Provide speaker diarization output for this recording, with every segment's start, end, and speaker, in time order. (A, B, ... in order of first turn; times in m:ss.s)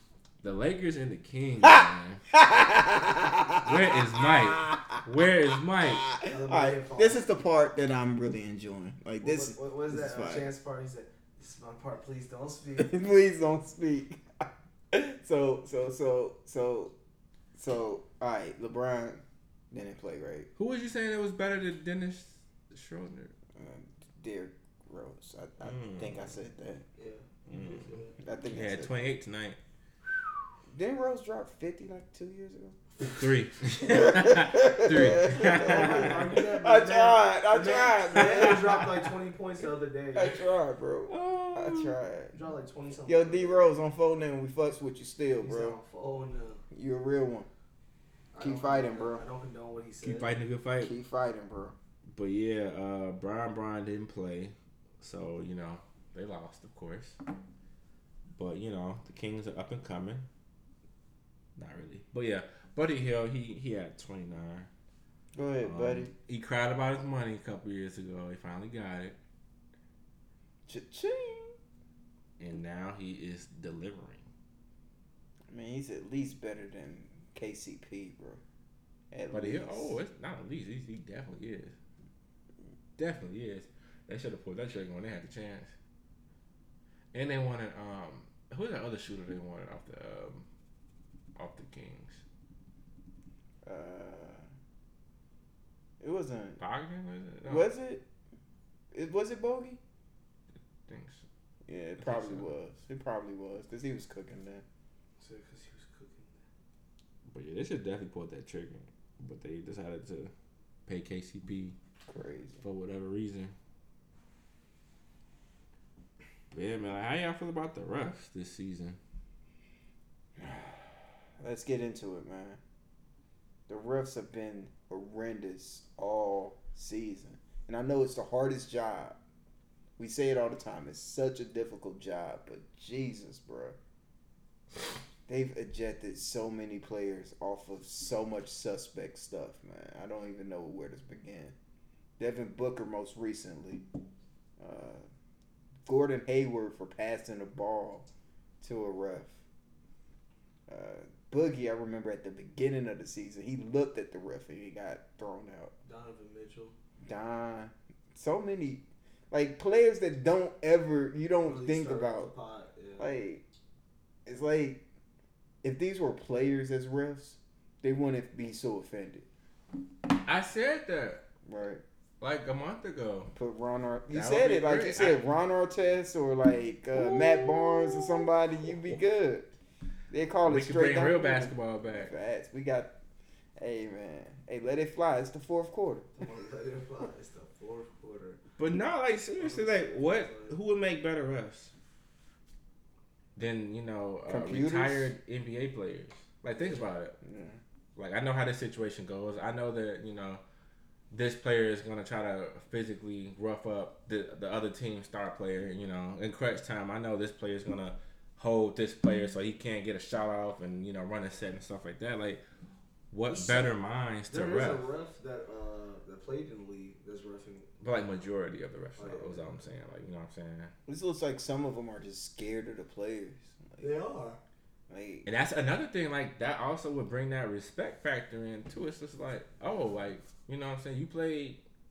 0:00.4-0:02.2 A
0:01.6-0:05.0 B
0:03.6-0:06.1 A
0:06.0-0:10.5 B
0:06.2-0:07.3 C
0:09.2-0:13.0 C
0:12.8-0:16.9 B
0:17.6-0:20.5 B
0:20.6-0:23.3 A
0:23.6-0:26.8 B
0:25.6-0:26.2 A
0:27.0-0:28.2 C
0:27.5-0:28.0 A
0:28.2-0:28.9 B
0:28.5-0:29.6 A
0:30.7-0:32.8 B
0:33.0-0:36.3 A
0:33.8-0:38.8 B
0:35.2-0:40.4 C
0:38.1-0:38.9 A
0:40.1-0:42.3 B
0:41.1-0:42.0 A
0:42.3-0:43.7 C
0:43.1-0:45.8 B
0:45.4-0:46.6 C
0:46.7-0:47.5 B
0:48.3-0:50.4 C
0:48.4-0:49.2 B
0:50.0-0:50.9 A
0:50.8-0:51.8 B
0:52.1-0:57.2 A
0:58.4-1:00.2 A
1:01.6-1:04.7 A
1:05.3-1:06.1 B
1:05.6-1:09.2 A
1:10.7-1:11.6 B
1:12.4-1:14.2 A
1:15.5-1:18.4 B
1:19.1-1:19.9 B
1:19.3-1:21.7 A
1:23.0-1:25.7 A
1:27.1-1:30.4 A
1:31.4-1:32.2 A
1:33.6-1:34.4 B
1:36.0-1:36.6 B
1:36.6-1:37.7 A
1:37.4-1:38.0 B
1:38.9-1:39.8 B
1:40.9-1:41.2 A
1:41.7-1:44.6 B
1:42.0-1:42.5 A
1:45.2-1:46.4 C
1:47.3-1:50.3 A
1:50.9-1:51.8 A
1:52.1-1:52.6 B
1:52.6-1:53.5 A
1:56.5-1:59.0 A
2:00.4-2:02.6 B
2:03.7-2:09.2 B
2:10.0-2:13.8 B
2:15.3-2:21.5 B
2:22.2-2:23.8 B
2:24.6-2:25.0 B
2:25.8-2:28.0 B
2:28.6-2:29.3 B
2:30.7-2:35.7 B
2:35.8-2:36.7 C
2:37.0-2:42.3 B
2:41.4-2:43.1 C
2:43.0-2:43.4 B
2:44.2-2:44.8 B
2:45.6-2:49.2 B
2:50.2-2:51.2 A
2:51.4-2:51.8 B
2:52.2-2:53.3 A
2:53.3-2:59.5 B
2:54.1-2:55.2 A
2:56.9-2:59.0 A
3:00.1-3:02.9 B
3:00.4-3:02.1 A
3:03.6-3:06.0 B
3:06.2-3:08.4 C
3:08.6-3:11.7 A
3:09.4-3:10.6 C
3:13.4-3:17.2 A
3:14.3-3:15.1 B
3:17.2-3:17.6 B
3:18.0-3:20.4 A
3:21.1-3:32.4 A
3:33.1-3:34.8 A
3:34.3-3:37.7 C
3:37.8-3:40.7 A
3:39.0-3:39.7 C
3:40.9-3:43.9 B
3:43.8-3:44.4 C
3:44.9-3:45.3 B
3:45.2-3:51.6 A